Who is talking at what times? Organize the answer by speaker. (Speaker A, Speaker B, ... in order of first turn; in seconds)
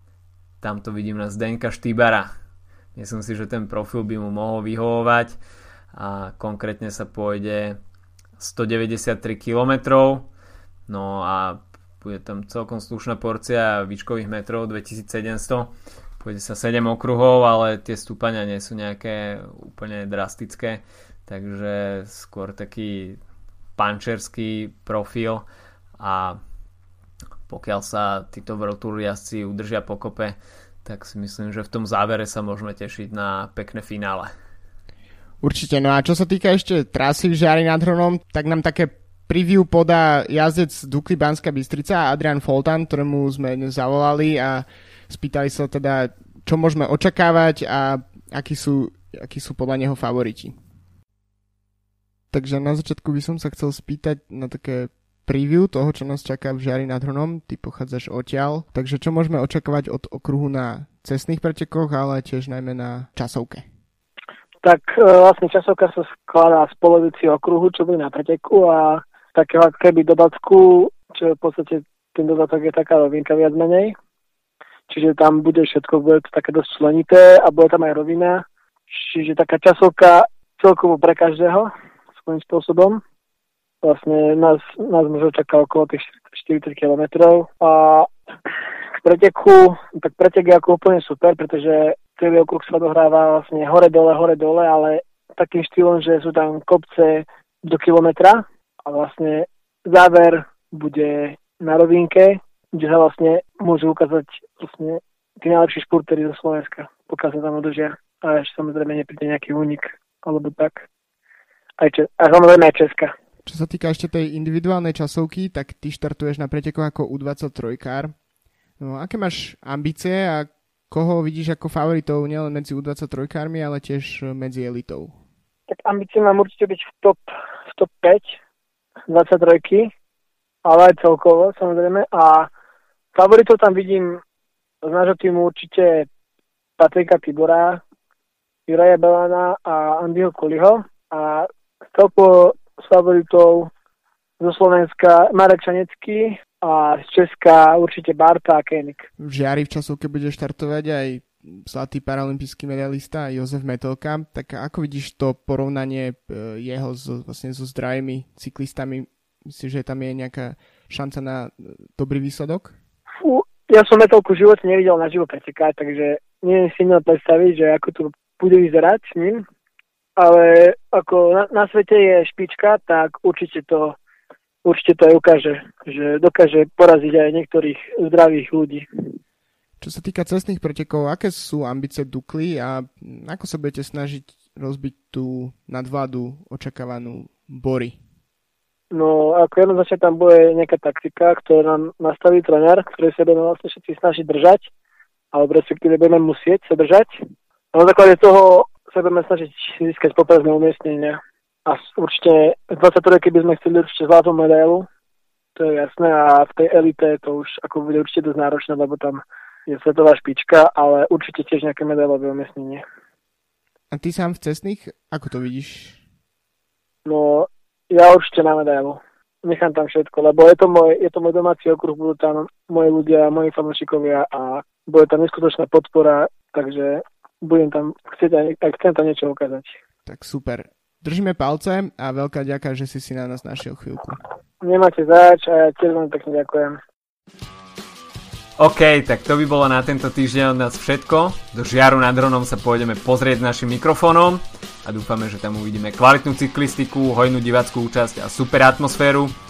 Speaker A: 0.6-2.3, 2.9-5.4, 5.9-7.8, 8.4-10.3, 10.9-23.2, 23.8-25.4, 26.0-26.4, 27.5-34.3, 238.6-249.3
Speaker B: 35.4-50.5, 52.3-63.6, 113.5-118.1, 118.8-125.1, 149.2-162.7, 179.8-187.9, 213.9-216.0, 230.1-234.2
Speaker C: 64.6-74.0, 74.9-83.0, 83.8-88.1, 89.0-110.9, 111.8-113.1, 125.7-128.4, 129.1-129.9, 130.6-132.5, 133.1-134.2, 134.8-136.1, 136.8-137.8, 138.7-143.7, 144.4-149.1, 163.2-169.4, 170.2-174.0, 174.6-178.9, 188.9-194.7, 195.3-197.2, 197.7-204.9, 205.6-212.8, 217.0-229.8, 234.6-236.8